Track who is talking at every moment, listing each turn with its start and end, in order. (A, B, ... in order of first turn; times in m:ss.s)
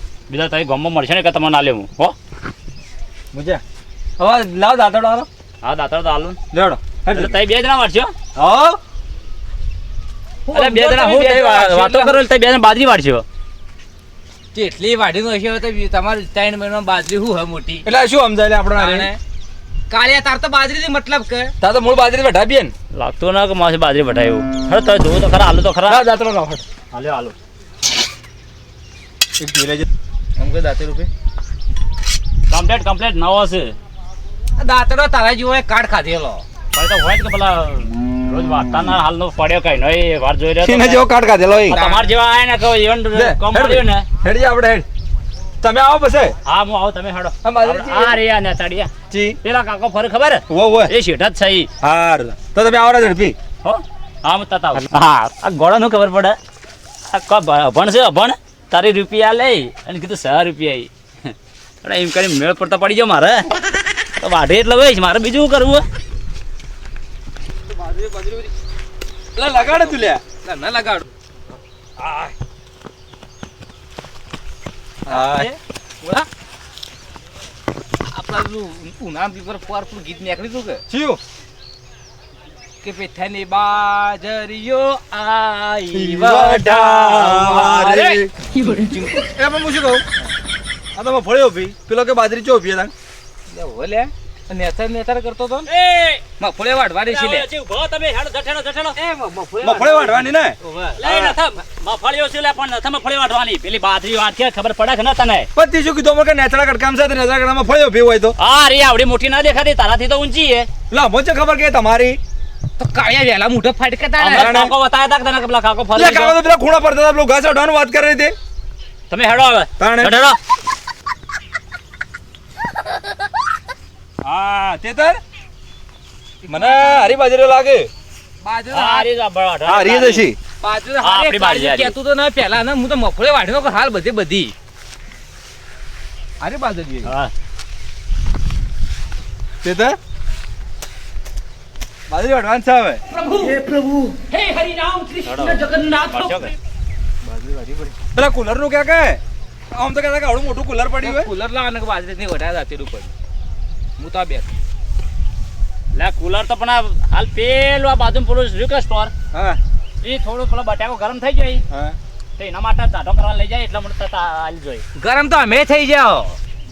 0:00.3-0:02.2 A
0:03.3-0:03.6 B
0:04.2-0:05.3 B
0:05.6-0:06.4 A
0:06.5-0:07.3 B
0:07.1-0:08.1 A
0:08.4-0:08.8 B
0:10.5-0:12.2 C
0:10.5-0:13.2 A
0:14.5-0:17.9 C
0:17.8-0:19.1 B
0:18.8-0:19.2 C
0:19.9-0:21.5 C
0:21.6-0:22.7 B
0:22.9-0:26.0 A
0:25.9-0:26.6 B
0:26.9-0:27.4 A
0:29.4-0:29.9 B
0:30.4-0:31.1 C
0:32.5-0:33.8 A
0:34.6-0:36.4 C
0:36.7-0:41.1 A
0:40.6-0:41.8 B
0:41.7-0:44.0 A
0:41.7-0:42.1 C
0:43.1-0:44.9 B
0:45.6-0:46.4 B
0:46.5-0:48.9 A
0:47.4-0:48.2 B
0:49.1-0:49.4 B
0:49.4-0:51.7 A
0:50.5-0:50.9 B
0:51.8-0:53.4 B
0:53.6-0:56.4 A
0:57.1-1:03.5 A
1:04.2-1:05.8 A
1:07.7-1:08.5 B
1:09.4-1:10.2 B
1:09.5-1:11.1 C
1:12.0-1:12.3 B
1:15.1-1:15.5 B
1:15.1-1:16.3 C
1:18.1-1:20.8 C
1:20.9-1:21.2 B
1:22.8-1:29.3 C
1:25.9-1:28.3 B
1:29.2-1:30.0 B
1:31.0-1:32.9 B
1:33.5-1:35.7 C
1:35.7-1:36.2 A
1:36.4-1:37.5 C
1:37.0-1:39.0 A
1:39.0-1:41.4 C
1:39.6-1:40.6 B
1:41.0-1:45.5 A
1:45.6-1:48.4 B
1:48.4-1:50.7 A
1:50.9-1:52.2 B
1:52.8-1:54.6 C
1:54.2-1:56.4 A
1:54.3-1:54.7 B
1:56.0-1:58.3 B
1:59.1-2:00.4 A
1:59.8-2:00.2 B
2:04.2-2:05.2 B
2:06.4-2:07.2 C
2:06.5-2:07.9 B
2:08.4-2:09.1 C
2:08.7-2:10.3 A
2:09.7-2:10.4 B
2:10.6-2:14.5 C
2:11.0-2:12.0 A
2:16.4-2:17.1 C
2:17.0-2:17.3 A
2:19.6-2:20.0 B
2:22.1-2:23.0 B
2:23.1-2:26.5 C
2:25.2-2:26.5 A
2:27.2-2:28.0 C
2:28.2-2:29.2 B
2:29.7-2:31.3 B
2:31.0-2:33.1 C
2:34.0-2:34.5 C
2:35.9-2:39.1 A
2:39.3-2:39.6 B
2:40.0-2:41.6 A
2:41.7-2:42.0 B
2:42.4-2:44.8 A
2:45.0-2:46.4 C